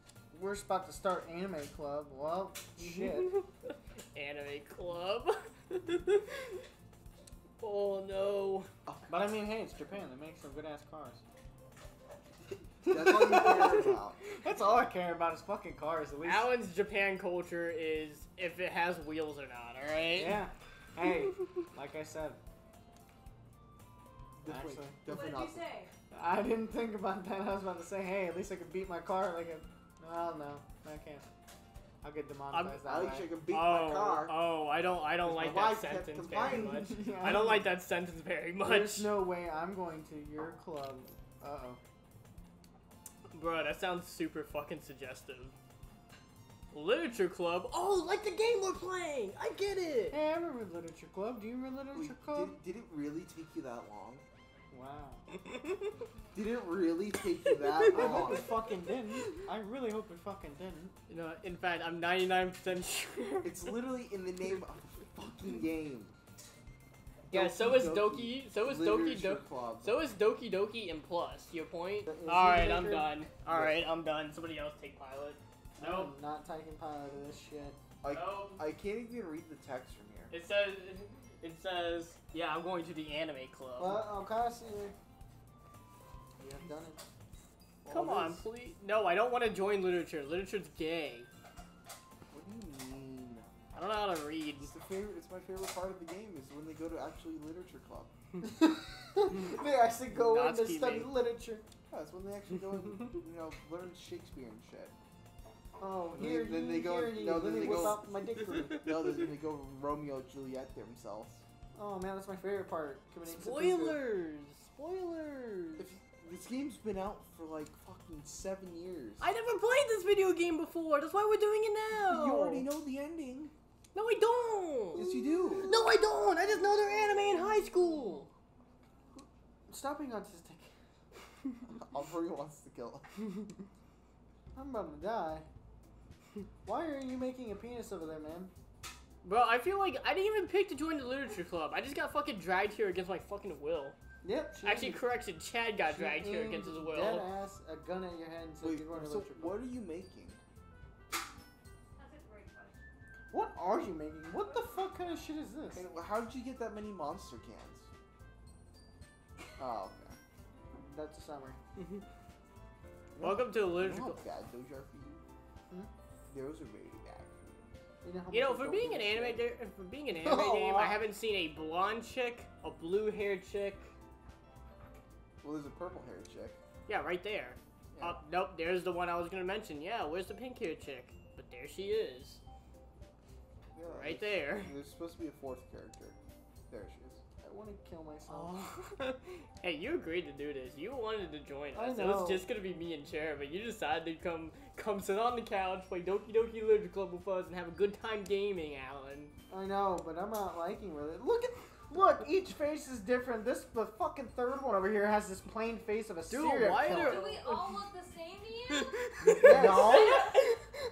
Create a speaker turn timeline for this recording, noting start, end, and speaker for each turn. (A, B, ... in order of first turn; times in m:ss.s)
0:00.3-0:03.3 A
0:02.8-0:06.6 B
0:07.6-0:08.7 B
0:09.1-0:11.2 A
0:12.5-0:14.2 C
0:12.8-0:16.5 A
0:16.2-0:20.4 B
0:20.2-0:22.4 A
0:24.4-0:25.8 C
0:24.4-0:25.0 A
0:25.1-0:25.9 D
0:26.1-0:31.2 A
0:32.0-0:33.3 A
0:32.5-0:32.8 B
0:32.8-0:34.4 C
0:33.5-0:39.1 B
0:35.2-0:37.0 C
0:36.4-0:37.7 A
0:38.6-0:41.8 A
0:43.3-0:45.6 B
0:46.7-0:50.2 B
0:50.1-0:52.6 A
0:51.9-0:54.2 C
0:54.7-0:55.3 A
0:55.5-0:55.8 B
0:56.3-0:58.5 C
0:57.8-0:58.2 B
0:57.9-1:00.9 A
1:01.1-1:03.6 B
1:03.4-1:06.1 C
1:07.3-1:16.1 B
1:07.3-1:10.0 C
1:12.1-1:13.1 A
1:13.4-1:13.8 C
1:15.8-1:17.8 A
1:18.0-1:20.3 C
1:18.1-1:18.6 B
1:20.3-1:24.0 B
1:23.8-1:24.9 A
1:26.4-1:27.0 A
1:27.8-1:28.4 C
1:27.9-1:31.3 B
1:32.3-1:33.5 C
1:33.7-1:34.7 B
1:34.6-1:38.1 C
1:38.4-1:41.6 A
1:40.1-1:41.1 B
1:41.9-1:44.9 C
1:45.8-1:49.0 A
1:46.1-1:51.4 C
1:47.6-1:47.9 B
1:51.7-1:54.0 A
1:53.2-1:55.9 B
1:55.8-1:59.3 C
1:59.2-2:02.7 B
2:02.1-2:03.5 C
2:03.9-2:08.3 B
2:04.9-2:05.7 C
2:05.0-2:05.8 A
2:09.7-2:10.7 A
2:11.7-2:13.0 C
2:14.5-2:15.5 A
2:16.6-2:18.5 A
2:19.2-2:24.0 B
2:24.2-2:25.0 A
2:24.6-2:27.3 B
2:25.8-2:29.6 A
2:28.6-2:30.4 C
2:31.9-2:33.0 D
2:33.3-2:35.8 A
2:34.3-2:35.3 D
2:35.7-2:37.9 C
2:39.6-2:40.2 C
2:40.8-2:41.6 A
2:41.8-2:42.0 B
2:43.2-2:45.2 C
2:43.2-2:44.2 B
2:46.3-2:47.7 C
2:48.0-2:49.4 A
2:48.3-2:53.9 B
2:50.1-2:51.0 A
2:55.4-2:56.6 C
2:56.9-3:02.4 B
2:57.9-2:58.2 C
3:03.7-3:06.2 C
3:03.9-3:04.7 B
3:06.7-3:07.2 C
3:07.4-3:08.5 A
3:08.3-3:19.3 B
3:11.7-3:12.4 A
3:19.5-3:27.3 A
3:26.3-3:27.9 B
3:26.8-3:29.1 D
3:28.7-3:30.6 B
3:29.3-3:30.1 C
3:29.3-3:30.5 A
3:29.7-3:30.5 D